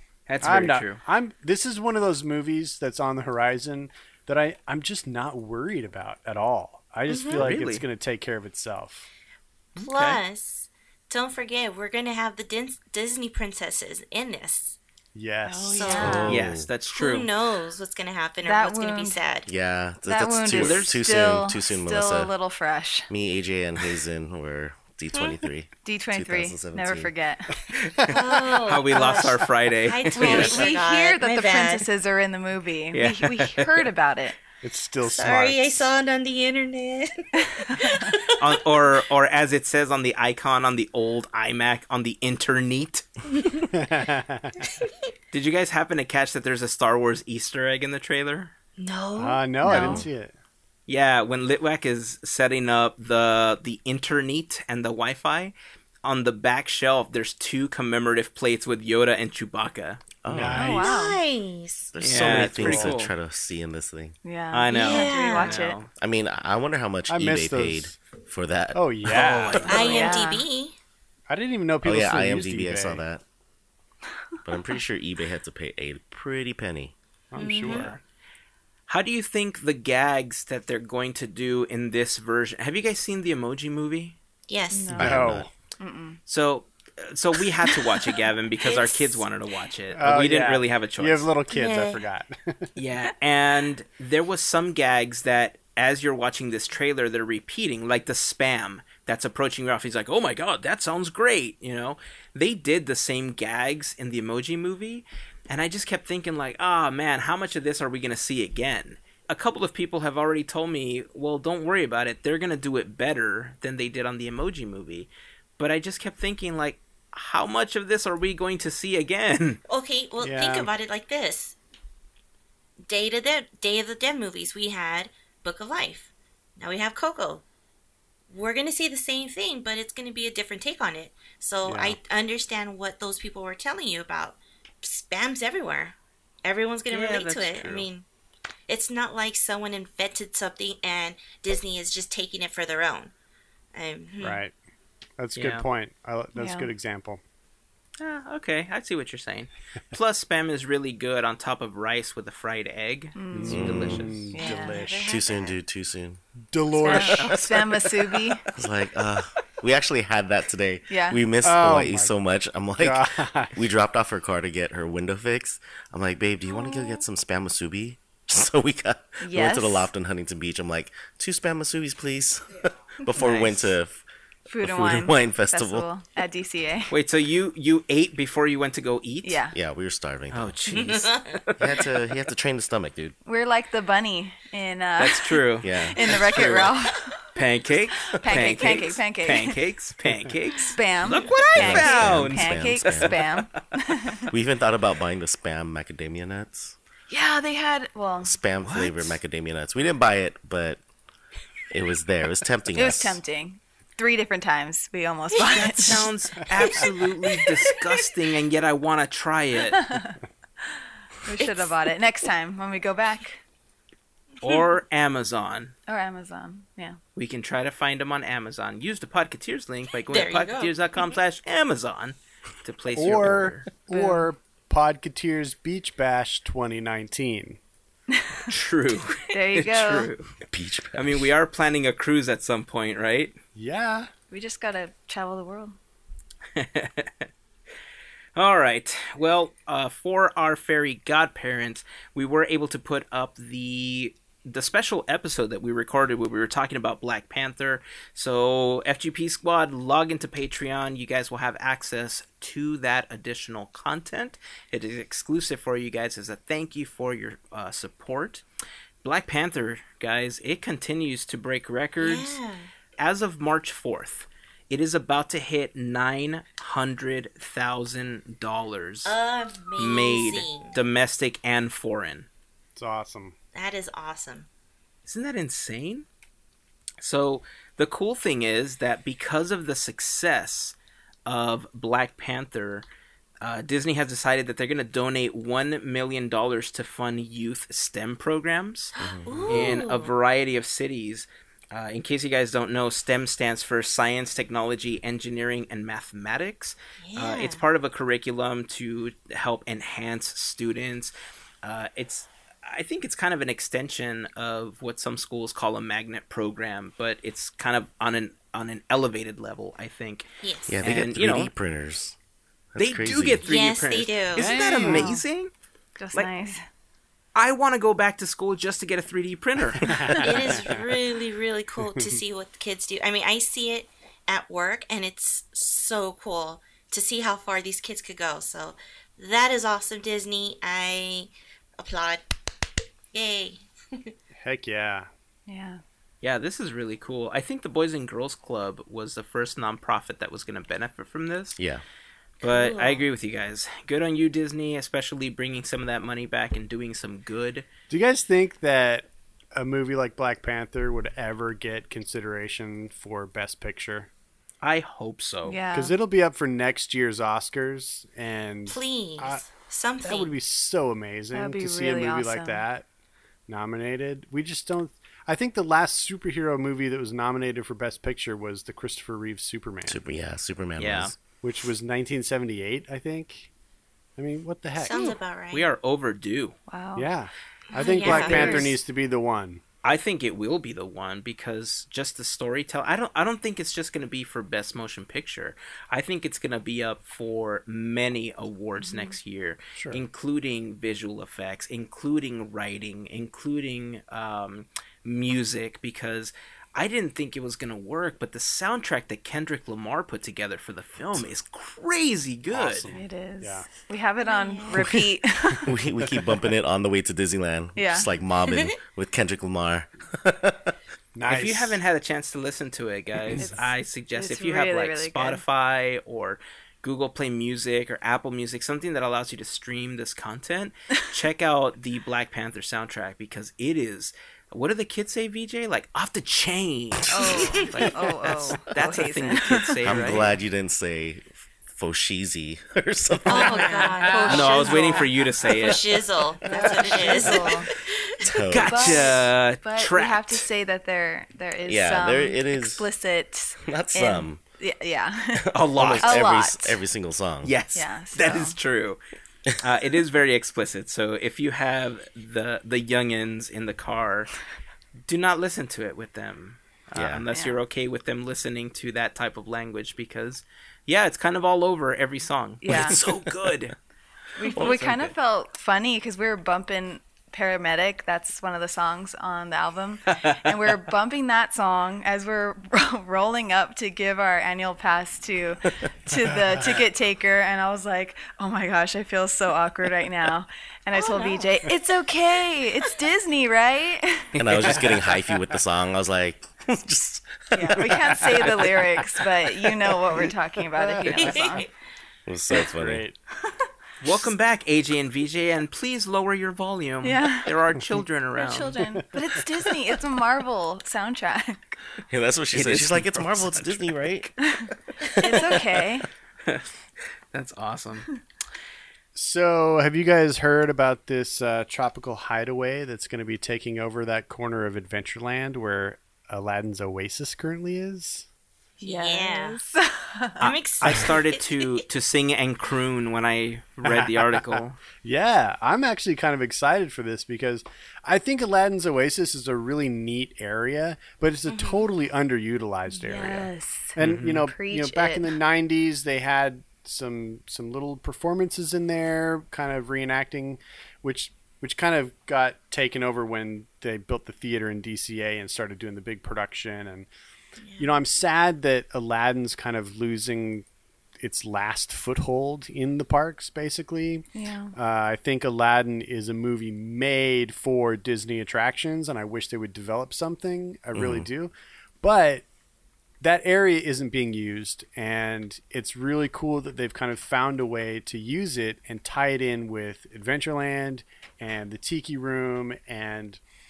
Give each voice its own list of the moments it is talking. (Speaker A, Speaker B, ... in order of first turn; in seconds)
Speaker A: 0.3-1.0, 7.2-7.8, 9.8-10.2, 16.2-17.3, 20.5-21.0, 27.7-30.7, 32.9-33.9, 38.4-43.1, 45.3-48.5, 50.9-60.1, 62.0-63.1, 64.5-65.9, 69.1-70.2, 77.4-78.0, 78.9-84.2, 86.3-91.3, 92.8-119.6, 136.9-137.9, 145.4-145.7, 148.0-154.3, 156.9-157.7, 176.9-179.4, 180.3-181.8, 185.0-186.8, 187.3-193.5, 198.6-199.1, 205.4-209.9, 214.4-215.7, 217.2-223.7, 228.5-230.3, 230.9-233.3, 236.6-237.3, 238.3-258.4, 259.0-262.4, 263.0-269.1, 269.8-272.3, 275.1-276.1, 277.0-282.9, 283.4-288.9, 289.5-310.3, 310.8-311.5, 312.8-315.5, 317.4-320.2, 336.2-341.6, 342.4-347.7, 354.6-355.6, 370.8-371.2, 375.5-376.6, 379.8-402.9, 411.3-430.4, 434.3-435.8, 437.0-437.3, 438.5-440.4, 445.5-446.2, 447.4-449.0, 449.6-454.3, 455.1-463.8, 464.4-465.1, 484.4-485.1, 494.0-498.8, 502.5-504.3, 507.3-508.1, 520.4-524.8, 534.0-534.5
Speaker B: 0.4-9.1, 15.2-16.6, 34.6-35.9, 43.7-44.6, 49.2-50.3, 60.3-61.0, 62.2-62.9, 67.1-67.9, 68.7-70.0, 71.3-73.0, 77.3-77.9, 84.9-85.5, 89.9-92.7, 120.2-120.7, 131.7-132.0, 144.2-144.6, 145.2-147.2, 153.3-155.1, 156.5-157.5, 161.4-162.2, 162.8-163.6, 223.0-227.6, 233.6-234.1, 272.8-273.4, 314.4-315.1, 319.8-320.8, 334.4-335.1, 347.9-354.1, 355.7-359.4, 360.1-362.9, 363.5-370.0, 371.4-373.5, 374.2-375.2, 377.0-379.6, 389.8-390.0, 402.5-403.7, 411.1-411.8, 434.1-434.6, 436.5-437.3, 488.1-488.6, 490.8-491.6, 492.5-493.2, 498.9-499.2, 509.1-518.3, 523.9-547.1, 547.8-550.6, 551.2-562.5, 563.2-573.4
Speaker C: 7.1-7.5, 9.8-14.8, 15.7-16.3, 16.9-19.5, 25.1-25.4, 28.1-31.9, 35.0-38.5, 43.4-43.7, 48.8-50.1, 60.6-61.9, 64.7-65.6, 69.7-70.8, 77.4-77.9, 84.5-84.9, 88.6-89.2, 91.5-92.0, 119.7-121.6, 122.9-127.4, 128.3-138.1, 138.7-143.1, 143.7-144.4, 154.3-155.6, 180.7-181.3, 220.1-221.2, 262.0-262.7, 269.1-270.8, 273.5-274.5, 289.0-290.1, 297.0-297.6, 310.4-310.8, 313.4-314.6, 320.2-332.2, 333.1-334.1, 342.4-343.0, 358.7-360.3, 374.8-375.7, 377.8-378.8, 404.2-404.9, 433.3-438.2, 480.9-481.9, 491.1-491.7, 518.8-519.6, 520.4-521.8, 531.5-531.9, 547.6-547.9
Speaker D: 15.5-16.4, 18.4-19.2, 20.1-23.1, 25.8-27.6, 29.0-29.3, 30.1-34.4, 37.4-38.2, 49.6-50.1, 60.5-61.2, 64.2-65.8, 69.8-70.5, 84.7-86.2, 146.4-146.7, 153.2-153.7, 154.3-155.0, 156.8-158.5, 160.9-161.2, 169.2-169.9, 173.1-173.7, 174.5-176.9, 179.2-179.6, 183.2-187.2, 188.2-189.6, 190.7-194.3, 197.1-198.4, 202.7-206.1, 209.7-213.4, 215.9-217.0, 223.9-224.3, 228.1-228.5, 229.3-230.1, 234.3-235.8, 314.8-315.2, 316.0-316.6, 335.5-335.8, 355.5-355.9, 361.3-362.6, 376.7-377.1, 377.8-378.8, 402.9-405.7, 407.8-408.1, 413.4-415.4, 427.1-430.0, 433.4-435.1, 436.5-437.7, 438.7-446.8, 447.8-448.6, 457.3-457.6, 462.6-463.0, 464.4-484.3, 487.5-491.7, 497.0-497.5, 498.4-501.8, 504.4-506.1, 518.8-520.4, 532.9-535.4, 554.3-554.8
Speaker E: 16.0-16.7, 19.5-22.3, 23.1-27.1, 60.2-61.0, 61.9-64.2, 65.9-69.7, 71.8-73.2, 74.5-76.9, 84.9-85.5, 153.5-154.1, 155.0-156.2, 156.7-174.0, 174.6-175.9, 179.5-183.2, 185.6-186.2, 191.5-193.2, 194.3-196.8, 198.2-200.8, 201.7-203.2, 230.4-231.3, 289.0-289.7, 310.7-312.2, 312.7-313.4, 369.9-371.2, 404.8-410.8, 429.9-433.8, 438.2-439.1, 441.7-442.9, 443.6-444.4, 445.4-447.5, 456.9-457.2, 462.7-463.6, 464.5-464.8, 484.4-488.5, 492.3-493.0, 502.1-504.3, 505.2-505.8, 560.9-561.3